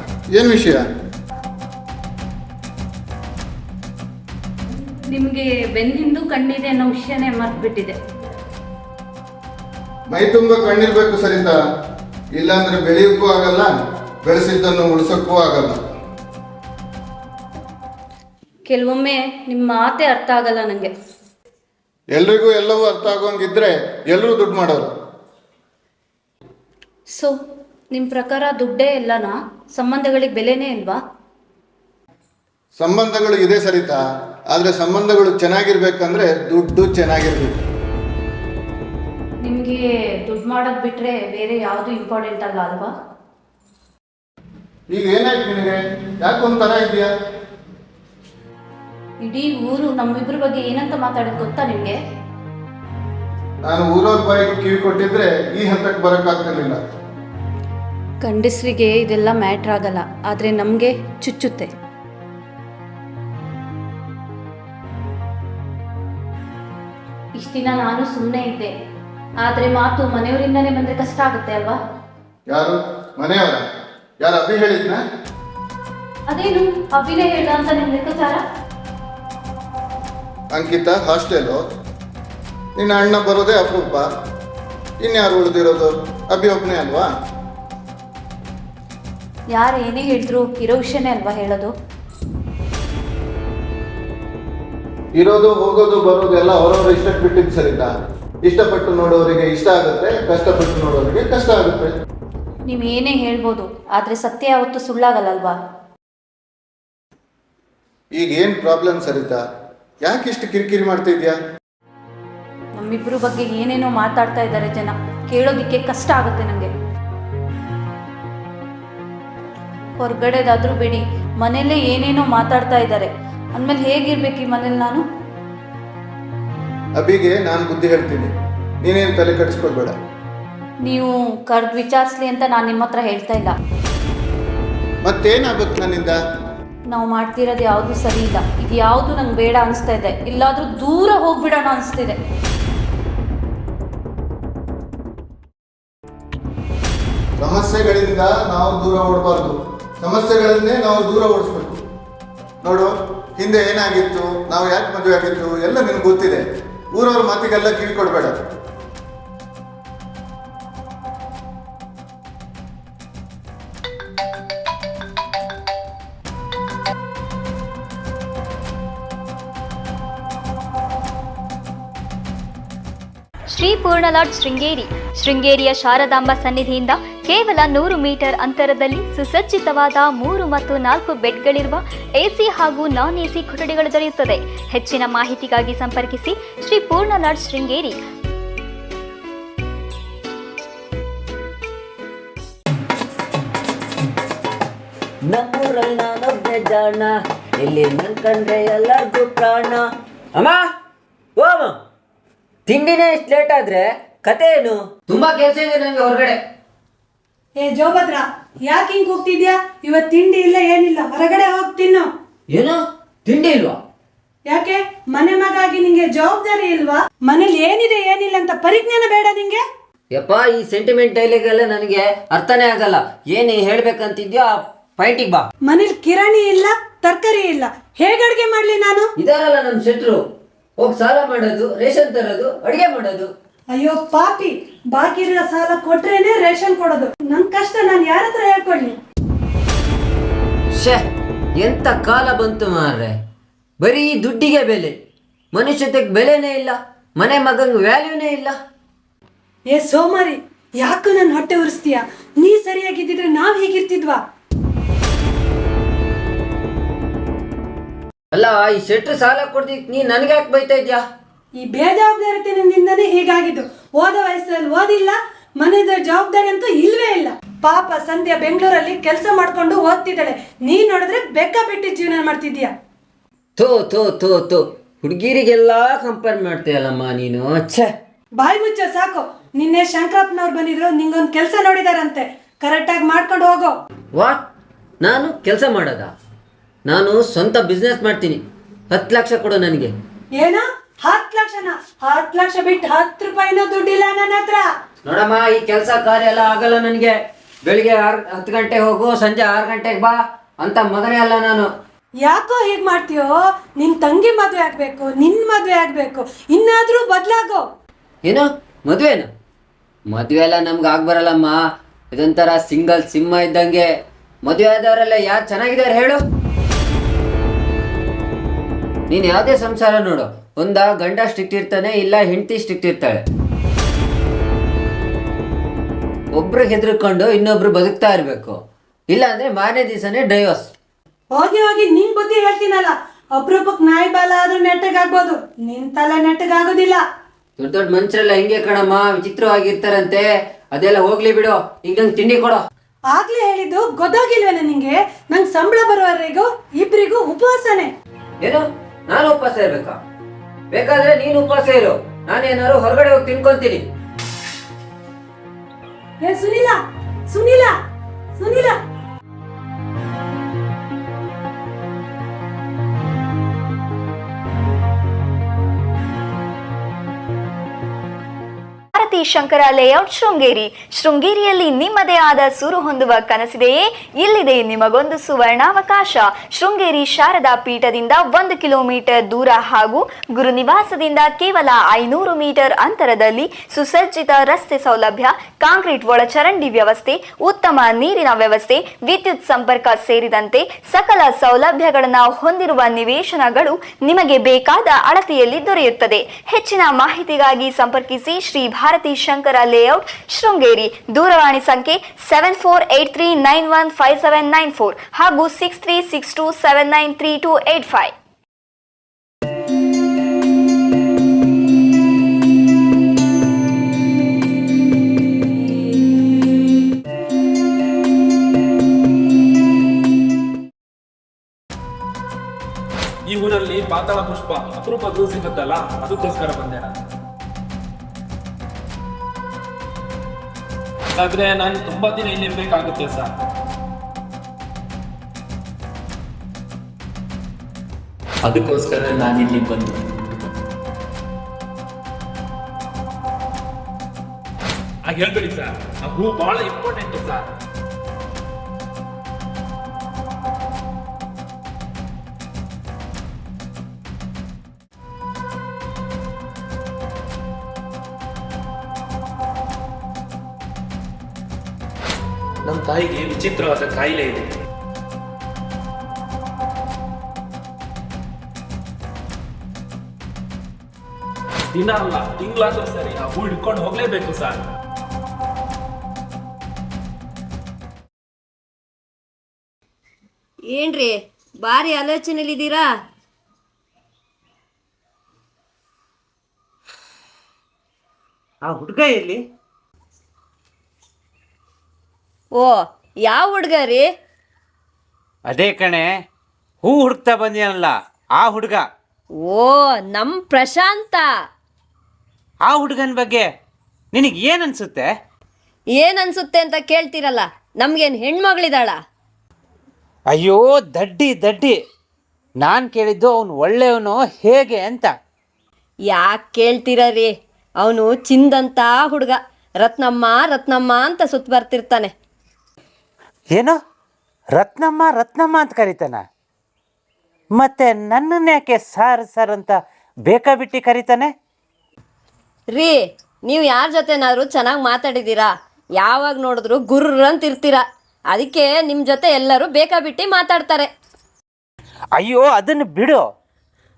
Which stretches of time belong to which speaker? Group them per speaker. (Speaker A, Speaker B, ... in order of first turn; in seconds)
Speaker A: 0.3-0.8, 10.1-11.6, 12.3-15.8, 22.1-24.9, 32.8-34.0, 34.5-37.6, 44.9-47.1, 53.7-56.8, 72.5-73.6, 74.2-75.0, 80.5-81.6, 82.8-84.0, 85.0-87.1, 95.2-97.9, 98.4-101.9, 108.2-109.4, 110.0-111.3, 127.0-128.3, 128.8-129.9, 135.0-136.2, 147.4-151.8, 152.6-158.3
Speaker B: 5.1-7.9, 18.7-20.9, 27.9-31.0, 39.4-42.9, 49.2-52.0, 58.2-61.7, 67.4-68.7, 69.4-71.8, 76.3-78.4, 89.5-91.7, 102.7-105.6, 112.8-116.7, 120.0-125.0, 130.9-133.6, 136.9-142.2
Speaker C: 195.3-196.1, 197.6-198.8, 201.4-201.7, 202.7-206.3, 212.5-213.7, 220.1-225.4, 229.2-230.2, 230.8-233.3, 240.7-241.0, 241.6-243.2, 243.8-244.9, 245.5-248.5, 258.3-261.0, 273.6-277.9, 284.1-284.4, 285.0-286.1, 286.9-289.9, 295.0-301.6, 308.2-309.3, 310.1-311.6, 312.1-313.9, 314.4-316.2, 319.1-323.2, 326.3-328.6, 329.1-330.7, 337.6-342.6, 348.4-350.0, 350.7-353.8
Speaker D: 207.6-212.1, 214.5-219.6, 225.7-229.1, 233.7-238.9, 249.7-254.2, 261.6-272.7, 278.4-283.7, 290.4-294.7, 302.2-307.6, 331.3-337.0, 343.1-347.9, 356.2-356.8, 357.3-357.7, 358.4-358.8
Speaker E: 368.9-408.1
Speaker F: 423.2-426.9, 431.1-433.3, 438.4-440.0, 445.0-447.5, 462.6-464.5, 471.7-474.6
Speaker G: 480.7-482.9, 492.5-494.1, 499.4-501.3, 505.9-509.0, 516.1-522.1, 532.7-540.9
Speaker H: 488.6-489.4, 495.4-496.1, 496.8-498.8, 502.6-503.4, 504.1-505.1, 510.3-511.8, 512.6-515.1, 523.5-523.8, 524.5-526.2, 527.6-531.3, 542.2-543.2